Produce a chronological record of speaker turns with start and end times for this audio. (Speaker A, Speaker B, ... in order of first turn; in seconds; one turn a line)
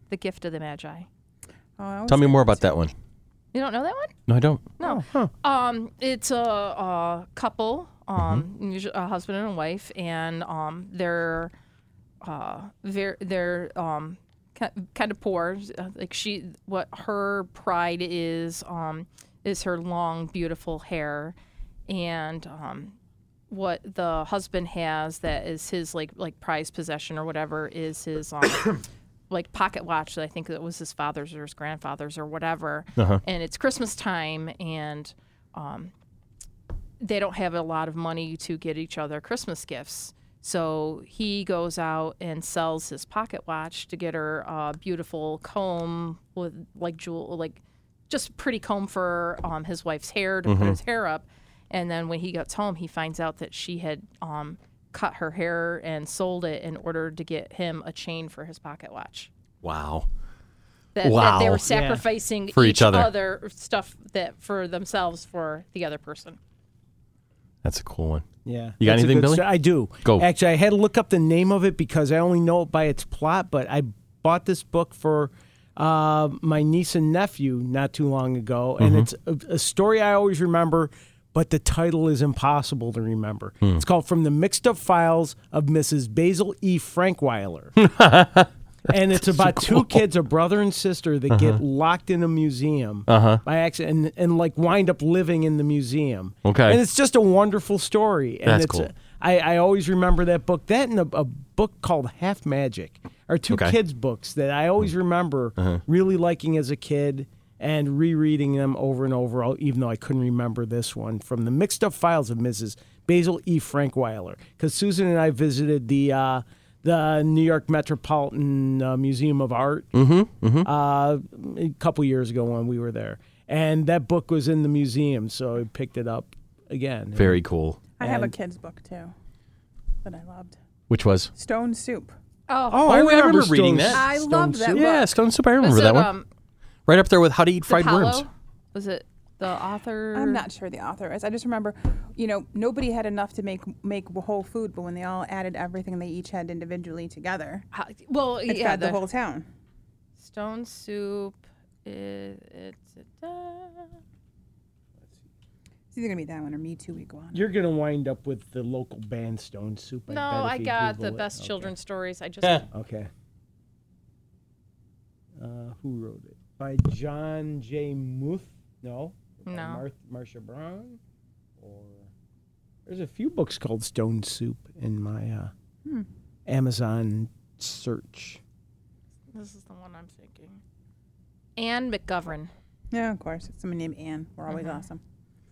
Speaker A: 0.1-1.1
Speaker B: 1.8-2.8
Speaker C: 2.1-2.9
Speaker A: 3.5-4.1
Speaker C: 4.3-4.7
Speaker A: 4.8-11.5
Speaker D: 4.8-5.3
Speaker C: 8.2-8.4
Speaker A: 12.2-21.4
Speaker A: 21.9-22.9
Speaker A: 23.5-28.8
Speaker A: 29.3-35.9
Speaker C: 33.0-33.2
Speaker A: 37.0-59.3
Speaker C: 50.4-50.8
Speaker C: 59.6-60.1
Speaker A: 60.9-66.4
Speaker C: 61.0-61.6
Speaker D: 61.7-62.0
Speaker C: 62.5-63.1
Speaker C: 67.6-68.2
Speaker D: 68.4-87.8
Speaker C: 68.8-69.5
Speaker C: 78.8-79.1
Speaker C: 87.8-90.0
Speaker D: 88.9-119.9
Speaker C: 91.3-91.6
Speaker C: 93.1-93.4
Speaker C: 96.4-96.8
Speaker C: 98.4-98.9
Speaker C: 103.5-103.8
Speaker C: 119.9-120.7
Speaker D: 120.6-127.4
Speaker C: 127.1-127.8
Speaker B: 128.0-129.1
Speaker D: 128.0-128.3
Speaker B: 130.0-130.5
Speaker C: 130.9-131.3
Speaker B: 131.3-132.1
Speaker A: 132.5-133.0
Speaker D: 132.7-134.9
Speaker C: 132.8-134.0
Speaker B: 133.9-135.1
Speaker C: 134.7-136.1
Speaker A: 135.6-136.2
Speaker C: 136.9-138.2
Speaker A: 137.7-140.4
Speaker B: 140.1-147.7
Speaker A: 147.7-149.0
Speaker B: 148.5-149.5
Speaker A: 150.2-153.9
Speaker B: 155.9-157.4
Speaker D: 157.3-161.7
Speaker A: 160.1-162.7
Speaker D: 162.7-163.1
Speaker D: 165.4-171.0
Speaker A: 169.5-169.8
Speaker D: 171.6-172.1
Speaker D: 172.8-175.5
Speaker D: 176.5-178.4
Speaker A: 179.3-180.6
Speaker A: 181.6-182.5
Speaker B: 182.9-185.0
Speaker A: 184.5-184.8